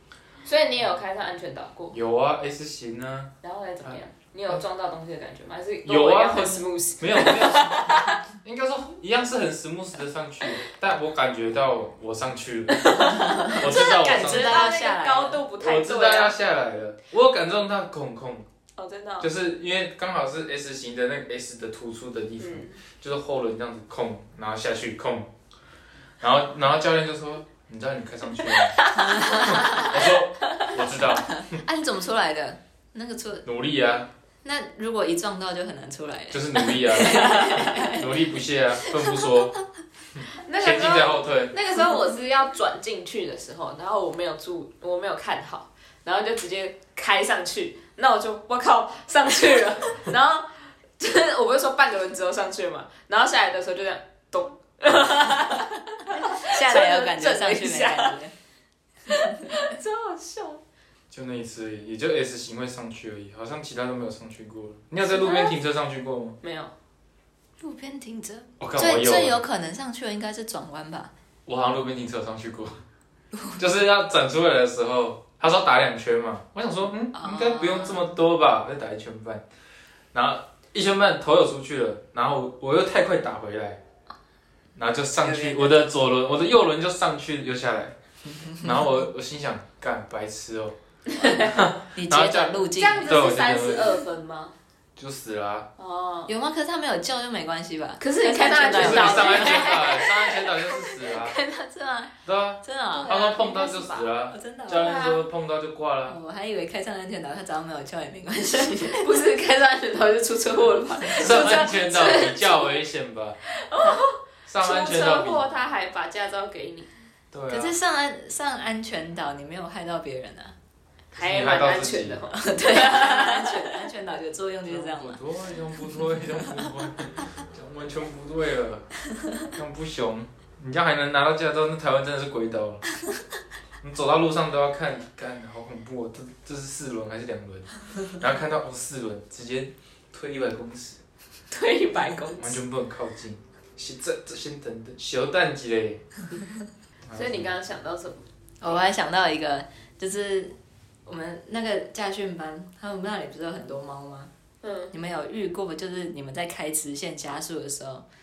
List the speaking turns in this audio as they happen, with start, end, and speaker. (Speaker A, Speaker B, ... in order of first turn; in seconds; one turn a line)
Speaker A: 0.4-2.0
Speaker B: 1.9-3.3
Speaker A: 3.4-8.2
Speaker B: 3.8-4.6
Speaker B: 5.8-13.0
Speaker A: 12.7-16.3
Speaker C: 13.0-15.4
Speaker B: 13.5-14.8
Speaker B: 15.6-18.5
Speaker A: 18.8-19.3
Speaker B: 19.2-25.3
Speaker A: 22.4-22.8
Speaker B: 26.2-31.6
Speaker A: 28.5-29.9
Speaker C: 28.9-30.0
Speaker C: 31.3-33.4
Speaker B: 33.4-34.1
Speaker C: 34.4-38.0
Speaker B: 36.3-39.5
Speaker C: 38.8-39.3
Speaker B: 40.1-41.5
Speaker A: 40.4-58.2
Speaker C: 56.1-58.3
Speaker A: 59.1-60.6
Speaker C: 59.1-59.7
Speaker B: 61.1-66.4
Speaker A: 65.1-65.6
Speaker A: 66.4-66.7
Speaker C: 67.6-71.1
Speaker B: 68.6-69.4
Speaker B: 71.5-72.8
Speaker C: 73.3-73.6
Speaker B: 73.6-79.4
Speaker C: 77.1-78.0
Speaker B: 80.1-83.8
Speaker B: 84.8-88.0
Speaker C: 85.2-85.8
Speaker B: 88.5-94.0
Speaker A: 91.1-91.6
Speaker C: 91.9-93.1
Speaker A: 92.7-94.5
Speaker B: 95.0-95.7
Speaker A: 95.8-96.3
Speaker C: 96.3-103.2
Speaker A: 98.0-100.2
Speaker B: 98.8-101.4
Speaker B: 102.2-106.2
Speaker A: 102.9-104.1
Speaker C: 104.3-105.0
Speaker A: 104.8-105.2
Speaker C: 106.1-109.1
Speaker A: 108.9-112.7
Speaker C: 111.0-111.8
Speaker B: 111.2-113.4
Speaker A: 113.5-116.9
Speaker B: 114.5-115.4
Speaker B: 117.3-117.7
Speaker C: 117.5-120.5
Speaker B: 121.1-122.2
Speaker A: 121.1-123.7
Speaker C: 122.3-125.2
Speaker B: 124.7-128.9
Speaker B: 129.5-132.8
Speaker B: 133.8-141.0
Speaker A: 141.5-142.6
Speaker B: 142.4-146.0
Speaker B: 147.1-147.5
Speaker A: 147.1-148.8
Speaker C: 148.6-150.5
Speaker C: 151.1-154.3
Speaker A: 154.6-154.9
Speaker C: 154.9-158.1